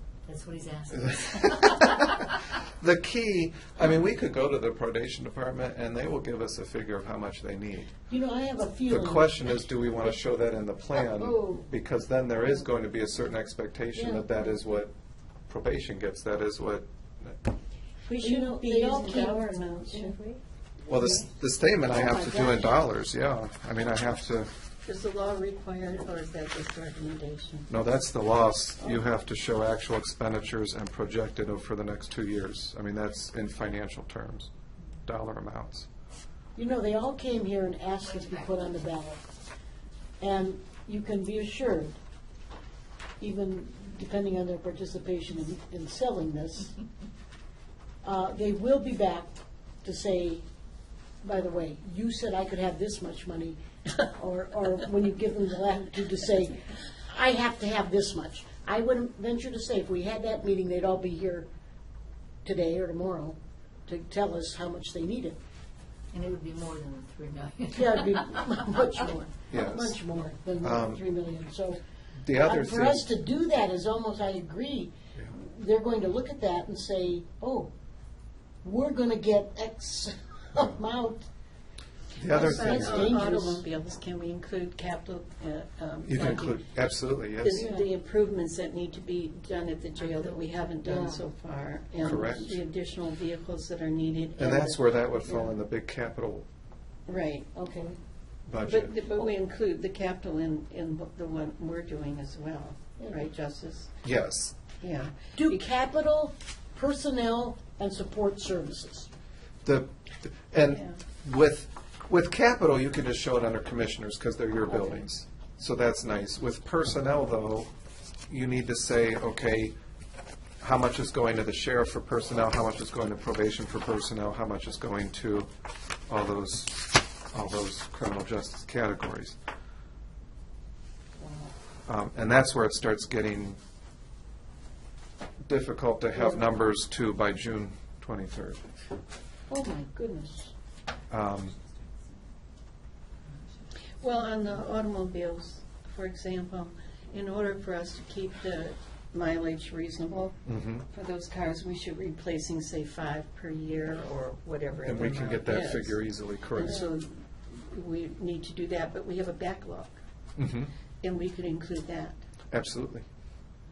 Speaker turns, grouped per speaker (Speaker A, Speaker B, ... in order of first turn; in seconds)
Speaker A: 0.3-2.1, 66.1-67.9
Speaker B: 1.0-8.0, 8.9-14.9, 15.5-17.4, 20.9-24.5, 27.7-34.5, 35.0-35.9, 69.5-70.0, 70.6-71.0, 72.2-73.1, 82.2-83.2, 86.0-87.6, 92.0-92.6, 94.4-96.5, 98.5-98.9, 104.0-104.5, 109.6-117.7, 118.3-119.8, 120.6-125.5, 126.1-129.4, 131.8-133.6, 135.4-138.7, 141.1-141.6, 150.4-150.8, 154.8-156.8, 160.4-160.7, 162.5-163.0
Speaker C: 8.1-9.4, 11.1-11.6, 13.9-14.3, 18.2-20.4, 21.9-22.8, 36.5-39.2, 40.2-42.0, 43.2-46.7, 48.0-50.4, 51.2-61.5, 62.4-65.4, 67.7-77.7, 78.6-81.3, 82.3-83.6, 87.5-87.9, 90.8-91.2, 95.3-95.5, 97.5-98.0, 105.3-109.1, 131.2-131.5, 136.1-136.5, 139.5-140.5, 156.7-156.9
Speaker D: 18.0-20.3, 24.8-27.7, 82.3-86.6, 87.4-94.8, 97.1-97.5, 98.6-103.9, 104.8-105.6, 110.7-111.0, 144.0-160.0, 161.0-162.2